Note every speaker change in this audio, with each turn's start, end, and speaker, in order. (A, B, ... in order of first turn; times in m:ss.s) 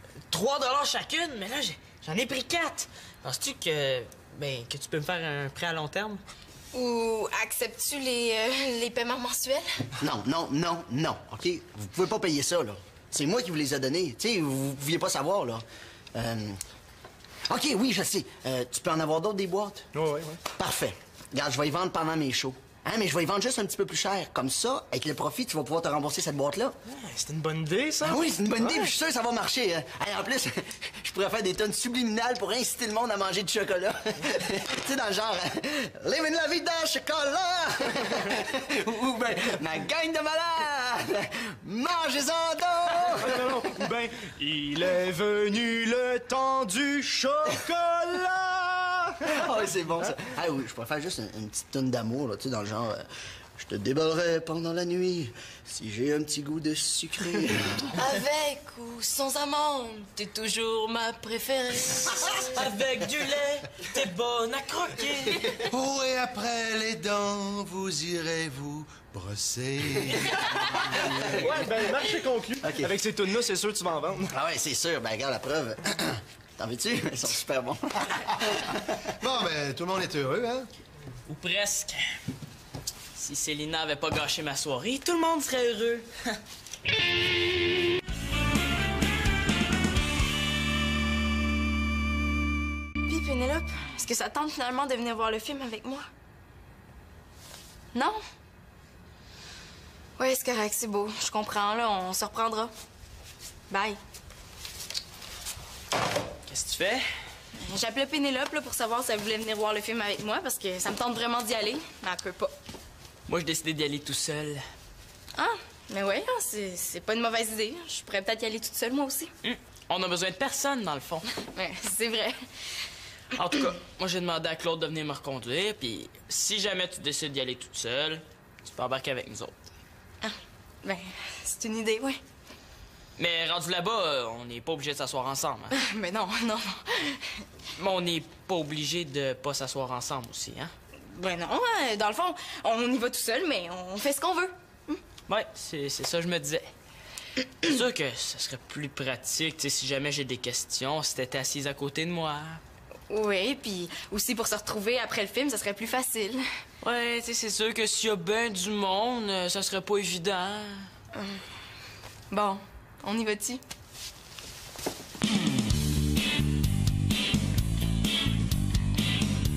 0:00.3-0:06.2 A
0:06.7-0:09.7 B
0:10.0-0:16.6 C
0:17.5-0:19.9 C
0:19.9-0:20.4 D
0:20.6-0:26.8 C
0:26.8-0:28.9 D
0:28.0-0:43.5 C
0:43.0-0:49.5 D
0:49.2-0:53.0 C
0:53.6-0:58.0 C
0:58.0-1:02.6 B
1:00.4-1:00.8 A
1:01.8-1:05.6 A
1:05.7-1:10.5 E
1:10.8-1:14.3 D
1:11.0-1:11.7 C
1:12.6-1:12.9 C
1:14.3-1:19.0 C
1:19.2-1:20.7 E
1:21.3-1:22.2 A
1:23.2-1:26.4 A
1:33.1-1:36.1 B
1:37.9-1:38.2 B
1:40.2-1:42.7 B
1:43.7-1:44.0 B
1:46.5-1:47.1 A
1:47.6-1:52.5 B
1:53.3-1:54.6 A
1:55.4-1:59.3 B
1:59.4-2:01.3 A
2:01.5-2:02.4 B
2:03.4-2:09.6 A
2:10.2-2:12.2 B
2:13.2-2:15.8 A
2:15.7-2:17.4 B
2:17.8-2:20.7 A
2:21.0-2:25.0 B
2:25.3-2:26.7 A
2:27.6-2:32.6 A
2:33.1-2:36.4 B
2:36.8-2:40.9 A
2:41.1-2:41.4 B
2:42.3-2:43.6 B